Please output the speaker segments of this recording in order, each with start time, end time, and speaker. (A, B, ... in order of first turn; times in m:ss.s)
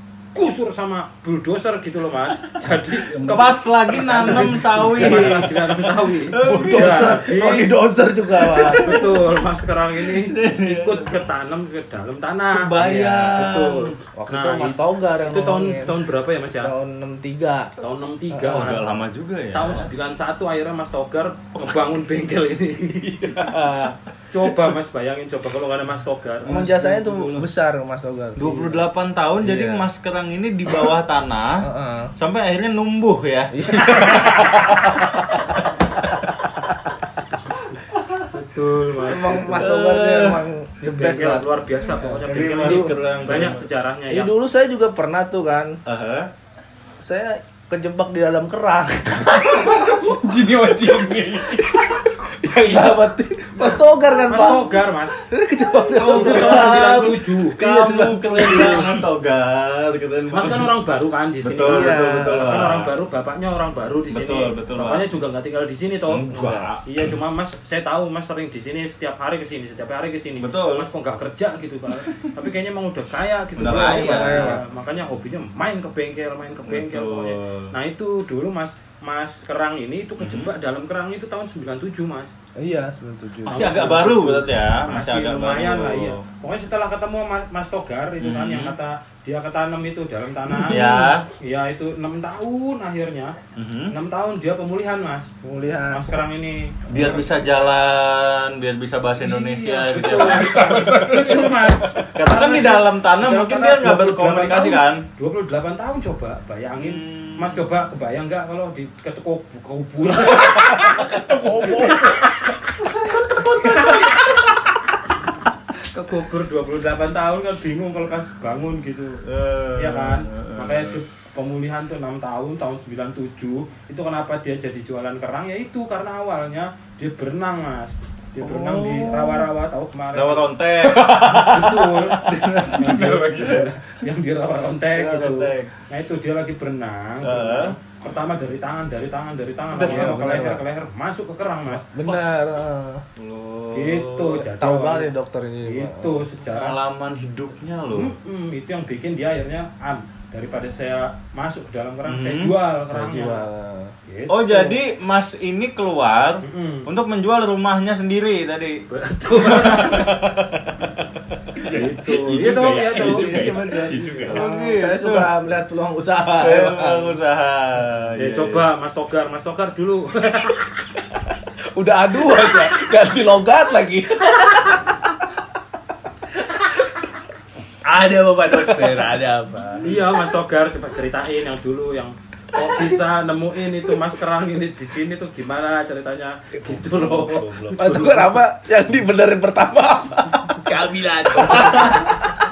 0:00.4-0:07.7 A
0:02.9-0:05.2 B
0:03.3-0:07.6 C
0:06.4-0:09.0 D
0:08.2-0:09.4 C
0:08.6-0:16.7 A
0:10.0-0:11.2 C
0:12.5-0:14.0 C
0:12.8-0:13.5 D
0:14.2-0:16.0 D
0:16.6-0:17.7 D
0:17.8-0:18.9 A
0:18.3-0:18.8 D
0:18.5-0:19.9 C
0:19.5-0:27.5 A
0:23.3-0:23.9 D
0:26.5-0:28.8 D
0:28.4-0:35.0 C
0:29.4-0:29.9 D
0:31.6-0:32.1 D
0:33.5-0:35.2 D
0:38.3-0:39.8 A
0:39.0-0:43.4 D
0:39.4-0:40.4 C
0:40.8-0:44.3 A
0:42.2-0:43.6 C
0:44.1-0:45.8 D
0:45.9-0:46.3 C
0:47.0-0:49.7 D
0:49.3-0:53.0 B
0:52.4-0:57.1 D
0:53.6-0:55.2 A
0:55.9-1:00.7 C
0:56.0-0:58.9 A
0:58.2-0:59.0 D
1:00.3-1:06.3 A
1:01.4-1:02.9 C
1:01.6-1:02.7 D
1:04.1-1:05.1 C
1:06.1-1:06.8 C
1:06.3-1:06.7 D
1:06.9-1:22.3 A
1:10.4-1:10.9 C
1:13.6-1:14.6 C
1:13.7-1:14.6 D
1:16.7-1:17.7 C
1:20.2-1:20.5 C
1:22.6-1:23.9 D
1:23.4-1:26.2 C
1:23.5-1:30.9 A
1:28.2-1:28.8 C
1:30.7-1:31.3 C
1:31.4-1:33.4 A
1:33.6-1:34.0 C
1:33.9-1:35.3 A
1:35.4-1:36.2 D
1:35.9-1:36.8 A
1:36.9-1:40.7 C
1:39.2-1:51.0 A
1:40.0-1:42.0 B
1:42.1-1:45.0 C
1:46.8-1:47.7 C
1:50.5-1:52.5 B
1:53.0-1:54.0 B
1:53.2-1:54.3 C
1:53.6-1:54.1 A
1:55.7-1:59.2 A
1:59.3-2:01.0 C
1:59.8-2:10.4 A
2:08.4-2:09.5 C
2:10.1-2:13.6 C
2:11.0-2:11.4 B
2:11.4-2:21.9 A
2:14.9-2:15.7 C
2:17.2-2:17.8 C
2:19.8-2:20.6 D
2:19.8-2:20.3 C
2:21.9-2:23.0 D
2:22.1-2:22.5 C
2:23.2-2:24.4 C
2:23.7-2:25.1 A
2:24.5-2:26.3 D
2:25.6-2:26.8 A
2:26.4-2:28.1 C
2:27.9-2:33.5 A
2:32.1-2:32.6 C
2:32.9-2:33.9 D
2:34.1-2:34.8 A
2:34.3-2:38.8 C
2:36.4-2:36.9 A
2:38.9-2:40.2 A
2:39.4-2:40.7 C
2:41.7-2:44.3 B
2:41.7-2:43.2 A
2:42.4-2:45.4 C
2:42.8-2:47.2 D
2:46.4-2:48.7 C
2:48.2-2:50.7 A
2:51.8-2:54.8 D
2:51.9-2:52.9 B
2:57.8-2:59.9 B
2:59.8-3:08.4 A
3:06.6-3:07.8 C
3:07.8-3:10.6 D
3:10.6-3:12.1 B